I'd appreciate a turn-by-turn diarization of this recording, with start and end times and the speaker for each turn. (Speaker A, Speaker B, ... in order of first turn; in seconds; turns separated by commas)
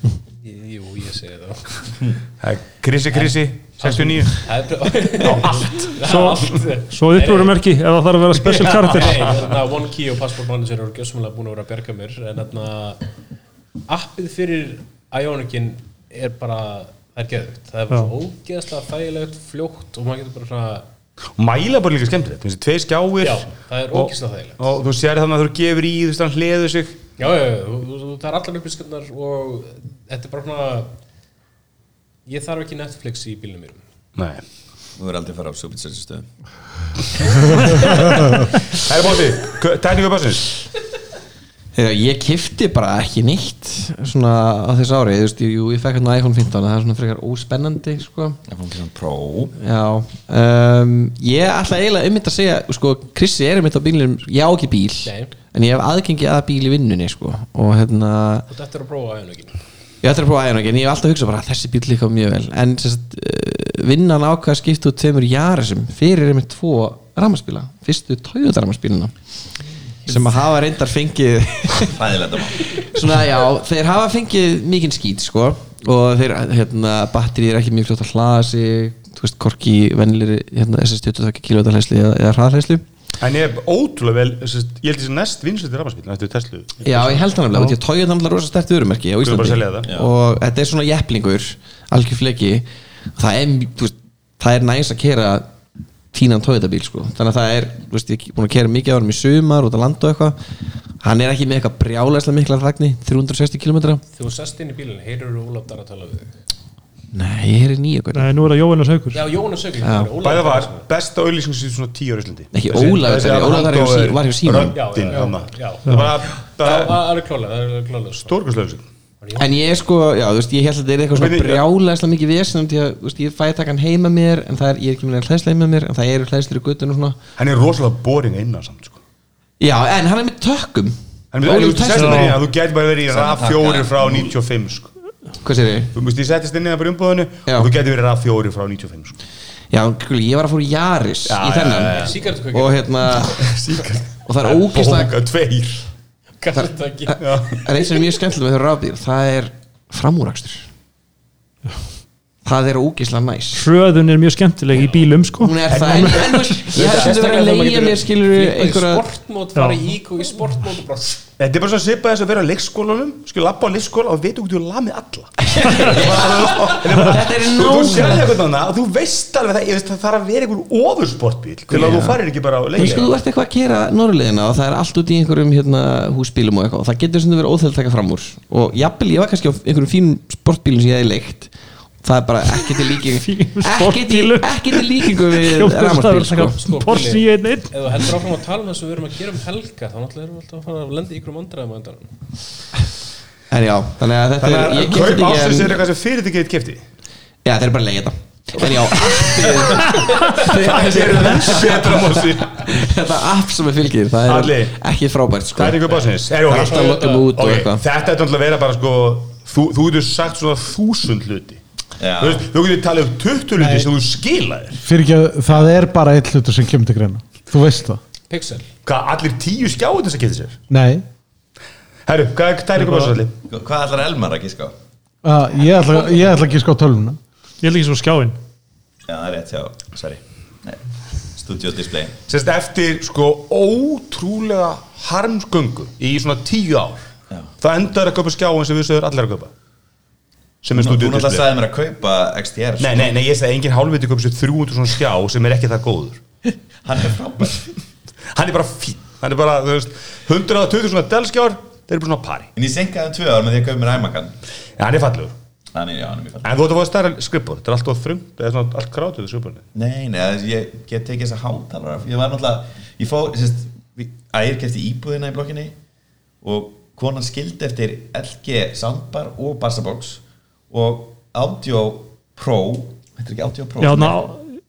Speaker A: 0.4-1.7, Speaker B: 2.4-4.5, Speaker A: 3.1-7.6, Speaker B: 5.2-5.9, Speaker C: 6.0-9.3, Speaker A: 8.3-13.0, Speaker A: 13.9-20.9, Speaker B: 21.4-27.0, Speaker A: 23.2-24.8, Speaker A: 27.2-30.9, Speaker A: 32.2-33.8, Speaker B: 34.2-34.4, Speaker D: 35.0-36.3, Speaker D: 37.4-38.1, Speaker B: 38.7-40.5, Speaker E: 41.7-48.4, Speaker D: 48.5-49.5, Speaker E: 49.6-58.5, Speaker A: 55.0-55.3, Speaker A: 58.5-59.6, Speaker E: 60.0-69.1, Speaker E: 70.1-72.0, Speaker D: 71.8-72.8, Speaker E: 72.6-82.8, Speaker B: 83.2-87.2, Speaker E: 86.8-95.5, Speaker B: 89.2-89.9, Speaker D: 89.8-90.1, Speaker E: 96.1-100.4, Speaker E: 101.0-104.0, Speaker A: 104.1-106.3, Speaker E: 107.1-108.3, Speaker C: 108.1-109.2, Speaker A: 109.1-110.9, Speaker E: 109.8-110.1, Speaker B: 110.2-117.0, Speaker E: 112.5-115.2, Speaker A: 114.7-118.4, Speaker C: 115.8-116.1, Speaker B: 118.2-118.8, Speaker A: 119.2-119.5, Speaker E: 119.3-127.2, Speaker B: 121.1-121.6, Speaker B: 127.4-129.0, Speaker E: 129.6-132.4, Speaker B: 131.3-134.9, Speaker C: 131.9-132.3, Speaker D: 133.1-134.3, Speaker E: 135.4-135.9, Speaker B: 135.9-139.2, Speaker E: 139.7-143.6, Speaker B: 141.3-142.2, Speaker A: 141.8-143.0, Speaker B: 143.2-145.8, Speaker E: 144.2-145.1, Speaker A: 146.4-147.8, Speaker E: 146.5-150.7, Speaker B: 147.2-147.7, Speaker E: 152.4-153.6, Speaker C: 153.5-156.7, Speaker E: 155.4-159.1, Speaker B: 155.7-157.6, Speaker A: 156.8-161.2, Speaker B: 161.4-173.1, Speaker E: 165.5-168.4, Speaker E: 171.7-172.2, Speaker E: 172.7-181.5, Speaker E: 182.0-186.6, Speaker C: 183.1-187.7, Speaker A: 186.5-192.2, Speaker E: 193.5-195.8, Speaker B: 194.4-196.8, Speaker E: 197.4-207.8, Speaker B: 198.6-202.8, Speaker B: 204.2-204.8, Speaker B: 205.6-211.6, Speaker A: 206.7-207.2, Speaker D: 212.0-212.4, Speaker B: 212.2-214.8, Speaker F: 213.6-213.9, Speaker F: 214.8-218.0, Speaker A: 218.3-218.7, Speaker B: 218.8-220.6, Speaker F: 220.7-221.0, Speaker B: 222.1-223.3, Speaker D: 223.4-224.7, Speaker F: 225.2-227.2, Speaker C: 227.6-228.4, Speaker D: 229.1-230.8, Speaker D: 231.3-232.2, Speaker B: 232.3-237.1, Speaker B: 237.6-239.5, Speaker B: 240.6-241.5, Speaker D: 240.7-243.1, Speaker B: 242.8-246.2, Speaker D: 246.8-247.7, Speaker B: 248.3-252.5, Speaker D: 252.5-254.3, Speaker B: 254.8-255.3, Speaker D: 255.7-256.5, Speaker B: 256.4-259.6, Speaker D: 259.7-265.7, Speaker D: 266.4-274.3, Speaker C: 273.8-274.5